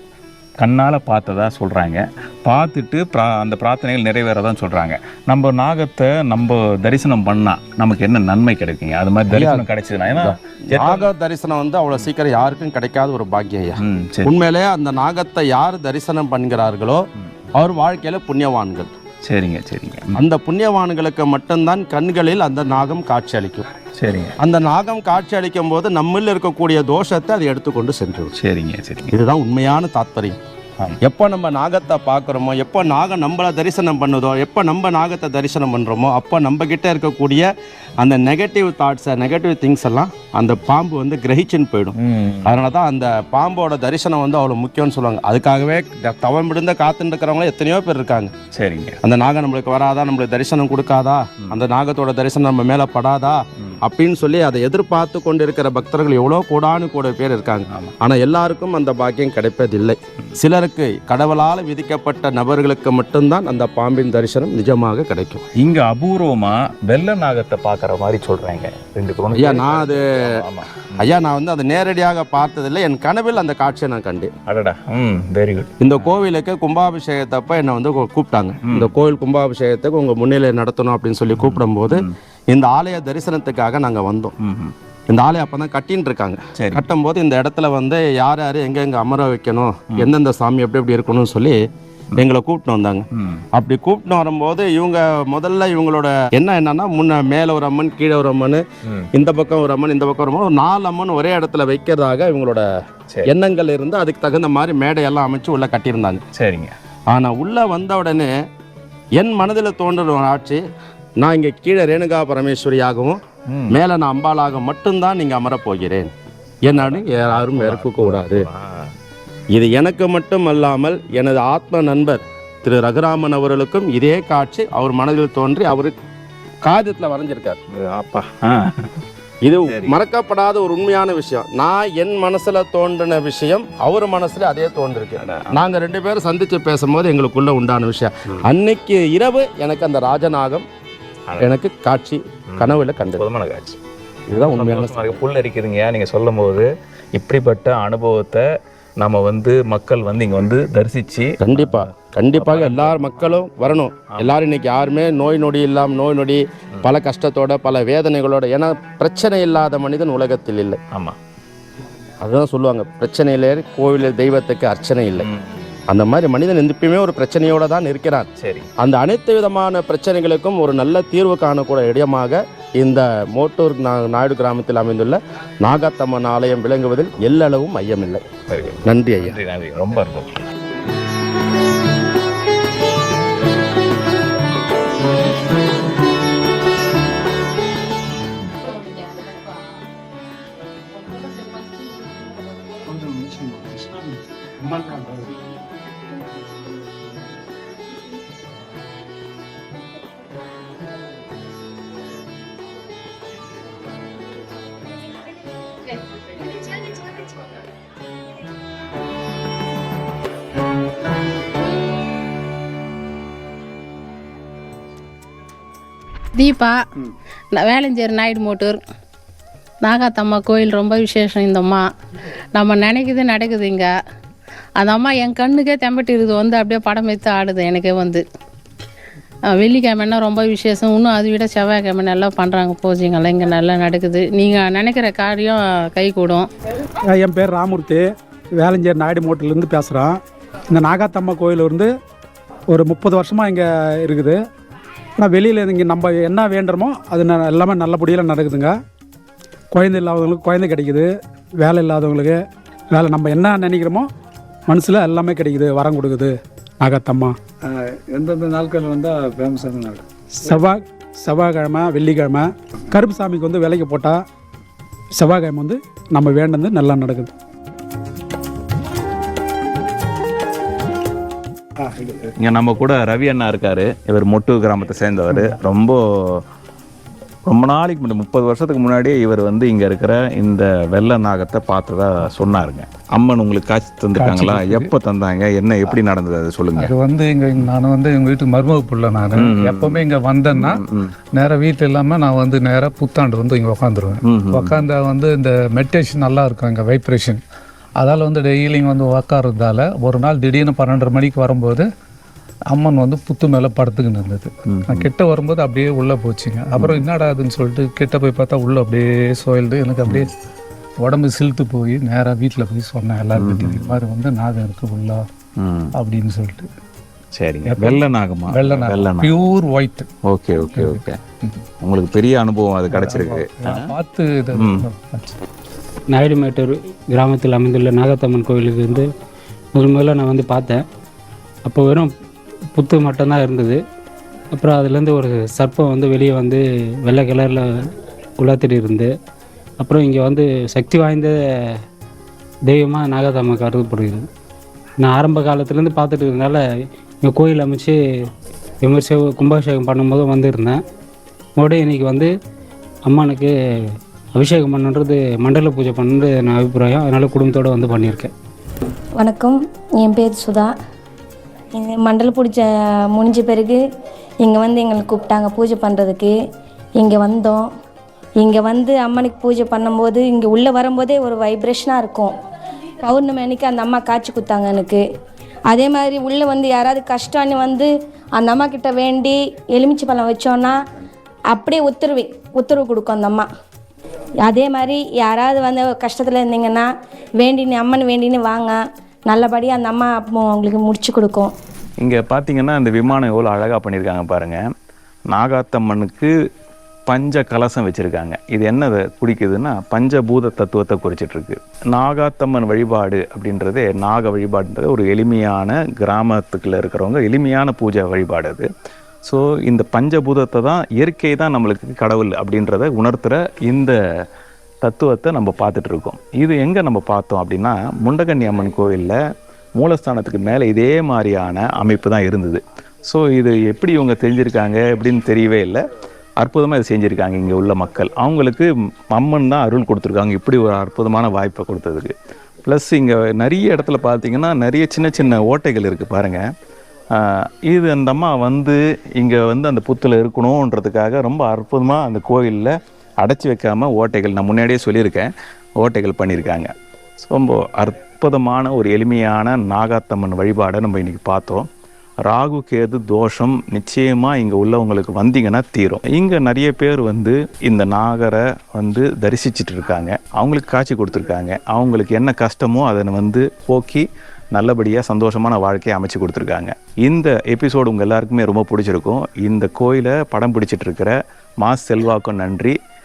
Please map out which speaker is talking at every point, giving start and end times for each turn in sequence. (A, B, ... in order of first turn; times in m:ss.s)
0:00.6-0:11.1 A
0:09.3-0:18.9 B
0:13.8-0:14.4 A
0:19.2-0:20.2 A
0:20.1-0:23.6 B
0:24.0-0:24.4 A
0:24.4-0:28.4 B
0:28.4-0:29.1 A
0:29.1-0:30.4 B
0:31.0-0:37.5 B
0:38.0-0:48.3 B
0:42.0-0:42.6 A
0:48.5-0:49.0 A
0:49.0-1:05.4 B
1:05.6-1:11.1 A
1:09.3-1:10.4 B
1:11.0-1:14.3 B
1:14.4-1:16.0 A
1:15.8-1:24.3 B
1:18.6-1:18.9 A
1:21.4-1:22.1 A
1:24.4-1:24.7 A
1:25.1-1:31.6 B
1:26.6-1:26.8 A
1:32.2-1:42.7 B
1:33.1-1:33.4 A
1:43.3-1:46.2 B
1:46.3-1:46.8 A
1:47.1-1:48.3 B
1:49.2-1:50.6 B
1:51.2-1:56.1 B
1:53.5-1:53.8 A
1:56.6-1:58.5 B
1:56.7-1:58.9 A
1:59.5-2:05.9 B
2:06.6-2:07.6 B
2:07.7-2:09.0 A
2:09.4-2:20.6 B
2:09.7-2:10.0 A
2:15.2-2:15.6 A
2:21.4-2:23.2 B
2:22.5-2:23.8 A
2:24.3-2:25.2 B
2:24.3-2:28.5 A
2:29.0-2:33.4 A
2:31.4-2:40.8 B
2:34.1-2:34.4 A
2:40.9-2:41.2 A
2:42.2-2:45.3 B
2:45.2-2:45.6 A
2:45.9-2:48.3 B
2:48.4-2:48.7 A
2:48.8-2:58.2 B
2:58.5-3:00.4 A
2:58.8-2:59.4 B
3:12.9-3:15.4 C
3:36.4-3:36.8 D
3:37.5-3:38.8 D
3:39.8-3:41.9 D
3:42.6-3:43.9 D
3:44.8-3:48.2 D
3:49.5-3:56.5 D
3:57.1-3:58.1 E
3:58.6-4:00.2 E
4:00.7-4:01.9 E
4:02.7-4:04.4 E
4:05.2-4:08.8 E
4:09.7-4:11.1 E
4:11.6-4:12.4 E
4:12.9-4:14.1 E
4:14.7-4:17.4 E
4:17.6-4:20.6 C
4:20.4-4:24.2 E
4:25.2-4:27.3 E
4:32.0-4:32.3 C
4:32.4-4:36.4 A
4:37.4-4:46.9 A
4:44.2-4:44.9 C
4:46.8-4:50.8 C
4:49.3-4:51.1 A
4:51.4-4:57.4 C
4:54.3-4:54.9 A
4:58.0-5:01.9 C
5:02.7-5:10.3 C
5:04.7-5:05.1 A
5:06.8-5:07.1 A
5:11.0-5:15.2 C
5:13.4-5:14.0 A
5:15.6-5:15.9 A
5:15.9-5:16.7 C
5:17.4-5:19.3 A
5:17.6-5:20.1 C
5:20.3-5:21.2 A
5:20.6-5:21.5 C
5:21.8-5:23.9 A
5:22.9-5:25.3 C
5:24.6-5:24.9 A
5:26.1-5:29.1 F
5:29.8-5:30.8 F
5:31.6-5:32.1 F
5:32.7-5:33.8 F
5:34.5-5:37.9 F
5:38.4-5:39.1 F
5:39.8-5:41.7 F
5:42.7-5:44.3 F
5:45.0-5:46.6 F
5:47.2-5:48.0 F
5:48.8-5:50.8 F
5:51.6-5:52.3 F
5:53.1-5:53.5 F
5:54.4-5:58.3 F
5:59.2-6:00.8 G
6:01.8-6:03.8 G
6:04.4-6:06.3 G
6:07.0-6:07.6 G
6:08.4-6:12.3 G
6:13.0-6:15.0 G
6:15.7-6:20.8 G
6:21.5-6:23.5 G
6:24.4-6:26.9 G
6:27.4-6:28.8 G
6:29.3-6:31.5 G
6:32.0-6:34.6 A
6:35.3-6:36.3 A
6:37.1-6:48.7 A
6:49.2-6:54.0 A
6:54.8-6:59.1 A
6:59.8-7:05.8 A
7:06.4-7:16.4 A
7:17.1-7:31.7 A
7:32.2-7:52.8 A